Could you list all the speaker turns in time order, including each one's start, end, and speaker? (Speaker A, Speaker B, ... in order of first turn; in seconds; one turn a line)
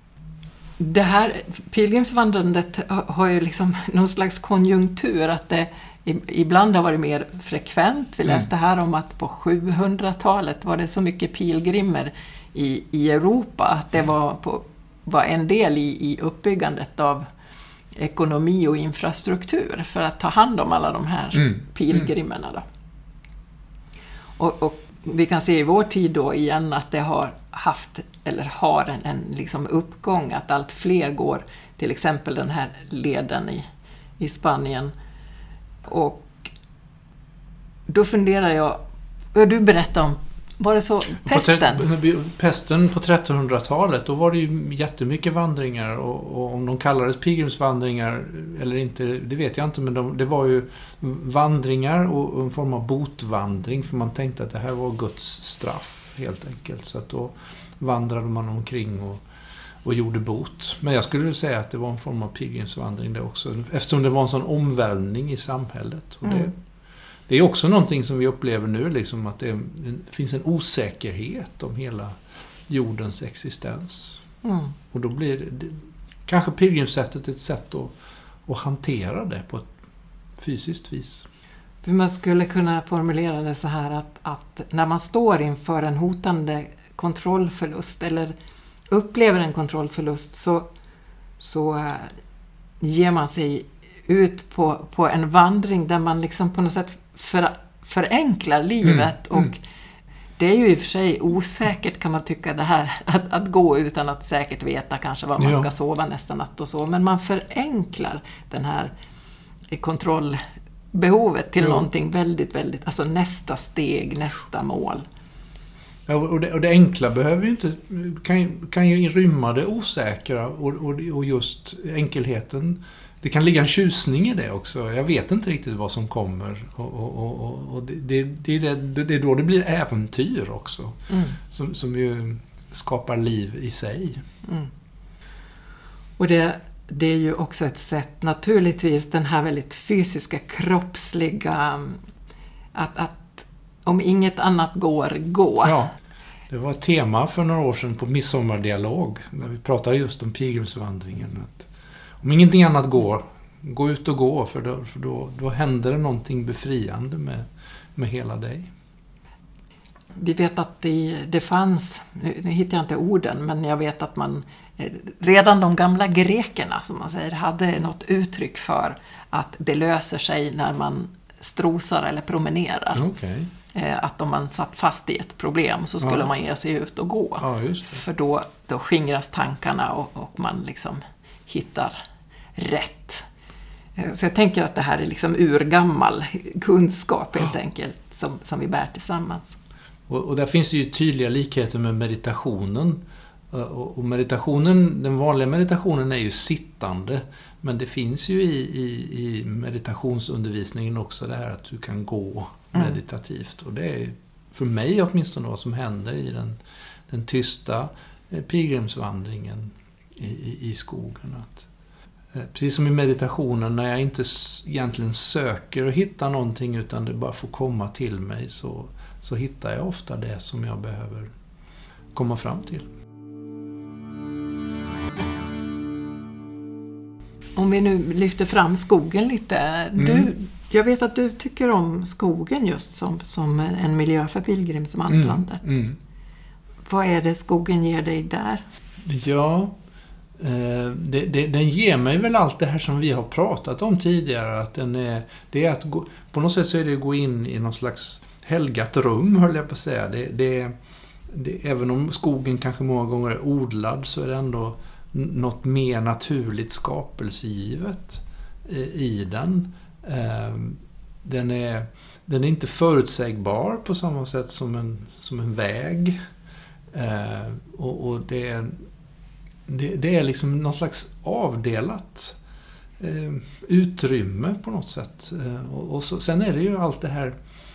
Speaker A: 0.8-17.2
Speaker A: 18.0-22.6
Speaker B: 21.4-22.1
Speaker A: 24.4-33.7
Speaker A: 34.2-34.9
Speaker A: 35.9-36.5
Speaker A: 37.9-38.8
Speaker A: 39.3-41.9
Speaker B: 41.2-59.2
Speaker B: 59.8-66.5
Speaker B: 67.3-74.2
Speaker A: 74.4-74.7
Speaker B: 74.9-79.7
Speaker B: 80.4-81.3
Speaker A: 81.8-88.3
Speaker A: 88.9-90.7
Speaker A: 91.4-92.2
Speaker A: 92.8-99.6
Speaker B: 98.8-99.5
Speaker A: 100.4-108.9
Speaker B: 105.4-105.7
Speaker A: 109.7-110.4
Speaker A: 110.9-115.0
Speaker B: 111.6-111.8
Speaker B: 116.1-134.2
Speaker A: 131.1-131.4
Speaker A: 134.4-134.7
Speaker A: 136.2-142.0
Speaker A: 142.8-145.8
Speaker B: 145.6-145.9
Speaker B: 146.5-151.7
Speaker B: 152.2-158.7
Speaker A: 160.2-173.0
Speaker B: 172.9-173.5
Speaker A: 173.7-182.0
Speaker B: 176.0-176.3
Speaker B: 177.4-178.0
Speaker A: 182.6-183.3
Speaker A: 184.0-189.6
Speaker B: 190.1-211.7
Speaker B: 212.3-221.3
Speaker B: 222.1-222.9
Speaker A: 227.6-235.7
Speaker B: 230.0-230.3
Speaker B: 235.1-236.0
Speaker A: 236.8-238.6
Speaker B: 239.0-239.7
Speaker B: 240.4-250.7
Speaker B: 251.3-266.2
Speaker B: 266.9-268.9
Speaker B: 269.7-272.4
Speaker B: 273.0-277.4